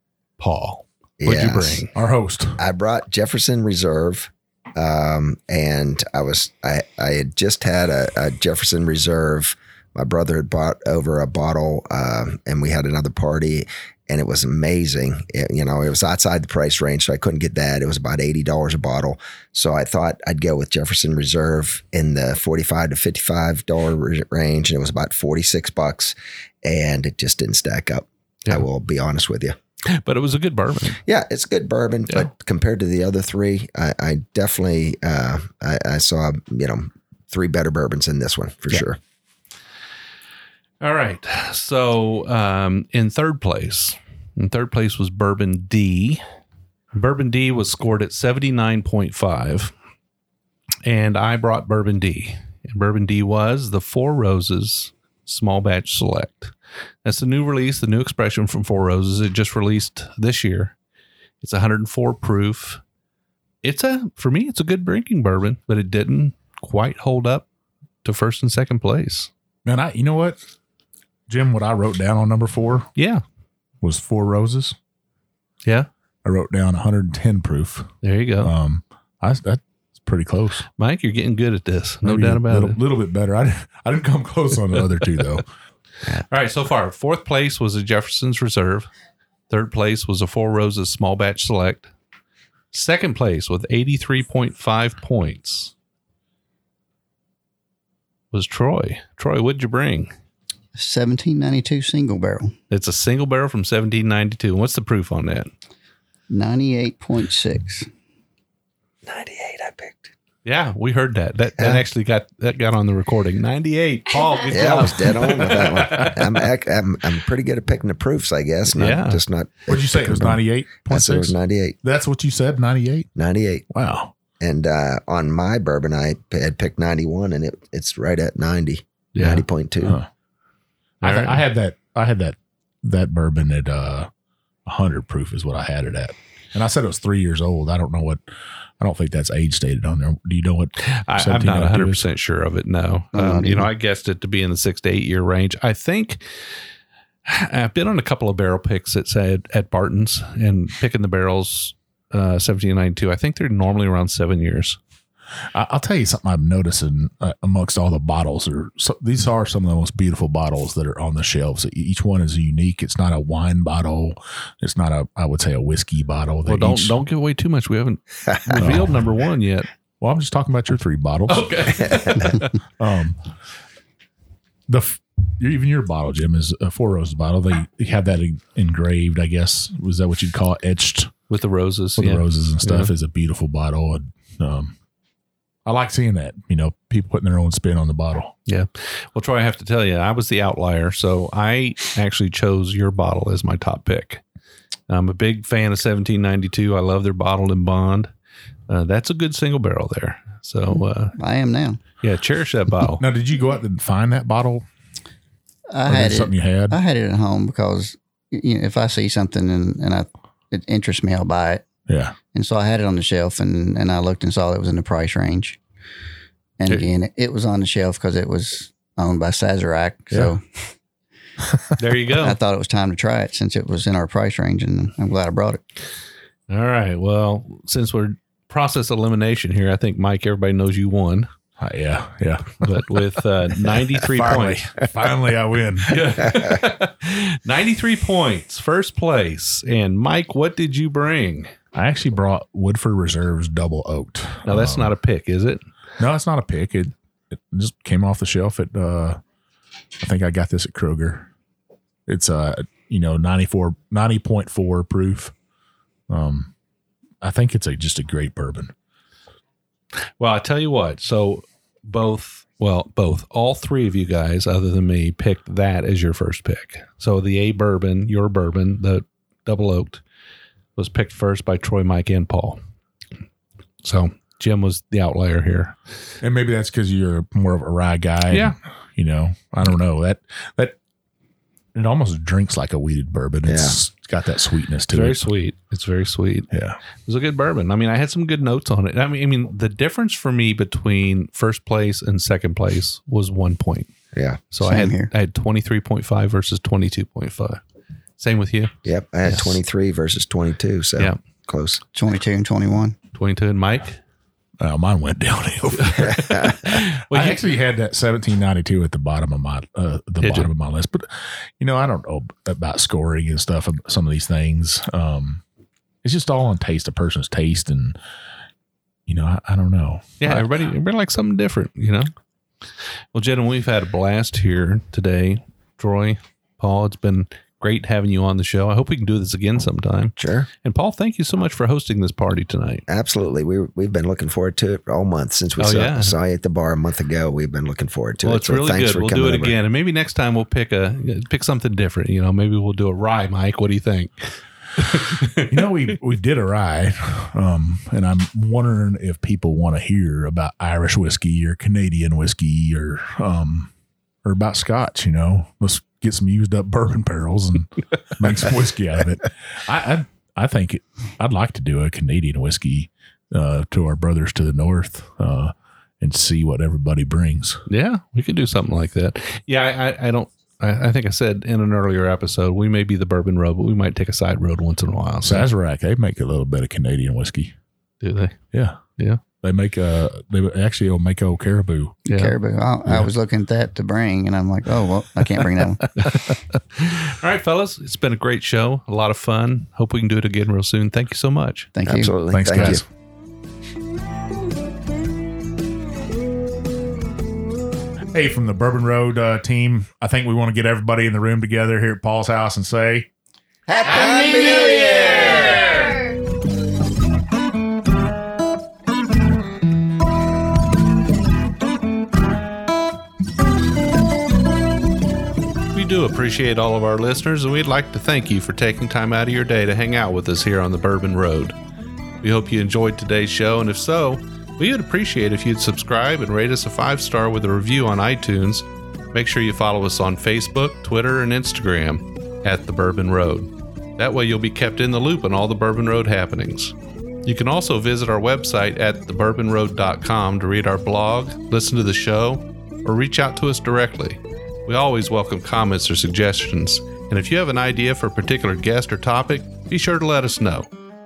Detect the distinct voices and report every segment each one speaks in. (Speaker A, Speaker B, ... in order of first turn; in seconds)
Speaker A: 0.4-1.9, 29.8-31.0, 40.8-46.2, 46.9-49.7, 50.8-56.5, 57.0-60.7, 61.4-62.8, 63.6-67.5, 68.0-69.3, 73.0-73.2, 78.0-78.5, 80.8-82.8, 86.1-88.9, 89.5-91.9, 92.7-95.7, 98.3-100.1, 102.7-105.5, 110.4-116.2, 118.7-119.2, 129.1-129.4, 131.0-131.4, 140.8-146.2, 147.2-154.8, 166.5-169.7, 171.3-172.6, 181.3-182.9, 188.5-194.2, 194.9-198.1, 198.7-201.2, 202.0-203.0, 221.8-222.4, 226.5-231.3, 232.6-234.7, 235.8-241.5, 244.4-245.6, 260.2-270.0, 270.8-272.6, 273.8-275.7, 278.3-278.6, 284.9-286.5, 287.1-293.9, 294.5-297.6, 298.2-298.7, 299.2-299.6, 303.1-304.0, 305.9-307.4, 310.2-310.5, 320.2-322.1, 323.1-332.8, 335.6-336.1, 338.2-345.7, 367.7-375.4, 378.0-378.4, 382.1-382.3, 386.7-391.7, 415.7-421.6, 422.2-450.7
Speaker B: 1.2-1.9, 2.6-29.6, 31.0-39.0, 109.1-110.1, 111.6-111.8, 114.5-121.8, 123.1-123.7, 124.4-130.0, 283.4-283.8, 294.1-294.4, 298.8-301.8, 306.0-306.6, 330.2-330.5, 332.9-339.6, 391.8-392.8, 403.9-404.8
Speaker C: 1.9-2.6, 69.6-70.4, 71.3-72.9, 73.8-74.8, 76.2-80.7, 82.0-85.4, 119.7-123.1, 123.7-124.1, 131.0-134.1, 134.7-138.2, 138.8-142.0, 155.5-167.0, 168.6-169.0, 170.0-173.2, 174.7-181.1, 182.0-184.7, 185.7-188.3, 203.0-204.6, 205.8-206.8, 211.9-212.2, 231.6-232.9, 234.0-236.1, 241.7-244.9, 246.0-249.2, 250.0-251.3, 252.1-255.3, 256.1-256.5, 257.2-258.7, 276.2-280.8, 281.7-285.2, 286.5-286.8, 304.6-315.4, 316.0-318.0, 319.1-320.5, 345.4-353.7, 354.2-367.6, 375.2-377.5, 378.5-378.8, 379.4-382.0, 392.3-392.8, 398.1-403.1
Speaker D: 100.7-102.5, 106.3-107.9, 143.1-143.7, 200.8-201.8, 205.7-211.6, 212.3-215.6, 216.6-220.6, 222.2-225.6, 294.6-295.1, 301.9-303.0, 382.1-386.0, 391.7-392.1, 403.7-406.1